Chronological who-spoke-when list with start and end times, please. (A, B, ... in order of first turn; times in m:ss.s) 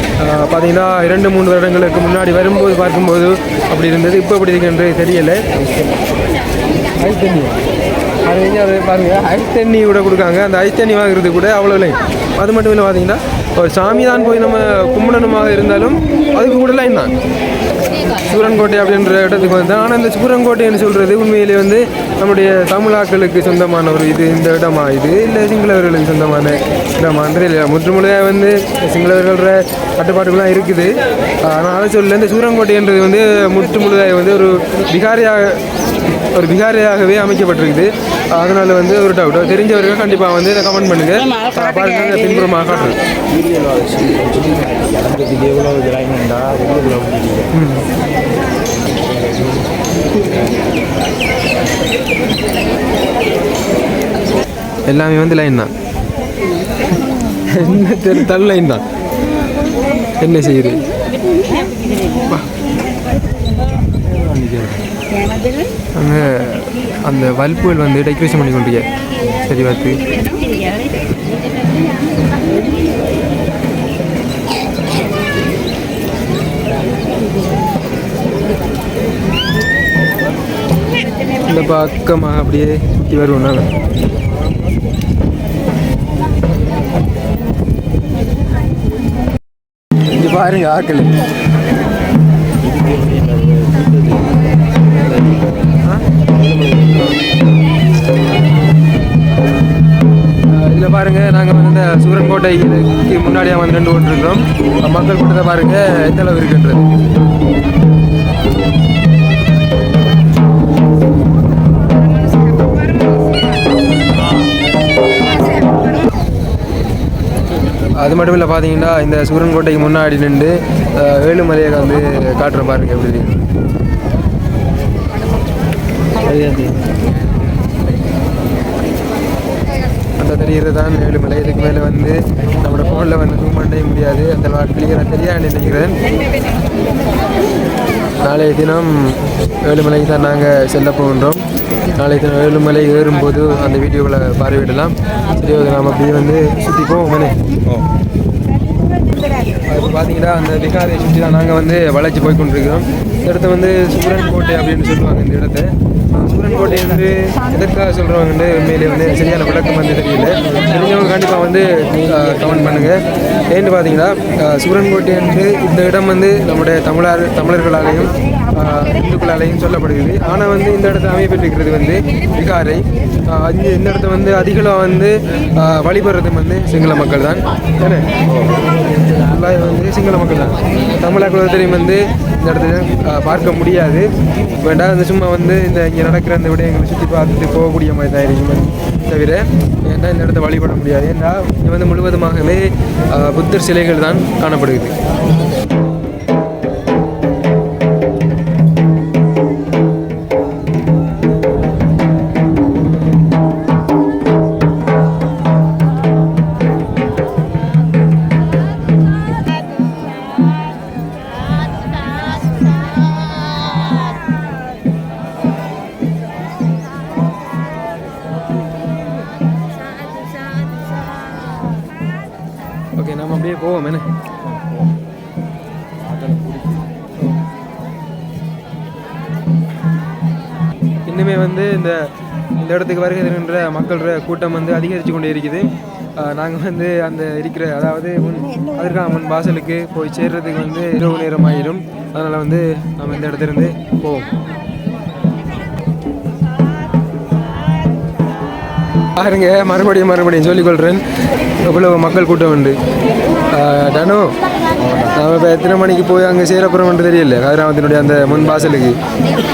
0:00.2-0:05.4 A
0:07.0-0:07.6 A
0:08.2-0:17.1 A
0:18.2-0:35.6 A
0:36.3-0:43.0 A
0:43.3-0:47.5 B
0:47.5-0:47.8 A
0:48.9-0:49.6 B
0:50.2-0:50.7 B
0:54.8-0:55.7 A
0:57.5-0:58.8 A
1:00.2-1:00.8 A
1:04.1-1:04.8 A
1:05.9-1:08.8 A
1:09.5-1:10.0 A
1:21.5-1:23.7 A
1:30.1-1:31.1 A
1:32.6-1:37.2 B
1:40.5-1:46.9 A
1:58.0-2:03.4 A
2:06.2-2:06.8 A
2:10.2-2:15.9 A
2:18.2-2:21.4 A
2:22.0-2:27.4 A
2:29.7-2:58.1 A
2:58.3-2:58.5 B
2:59.1-3:14.9 A
3:43.0-3:44.1 A
3:44.4-3:44.8 B
3:46.0-3:46.8 B
3:51.0-4:04.3 A
4:09.2-4:11.0 A
4:11.6-4:12.8 A
4:13.5-4:14.3 A
4:14.8-4:15.2 B
4:15.1-4:19.0 A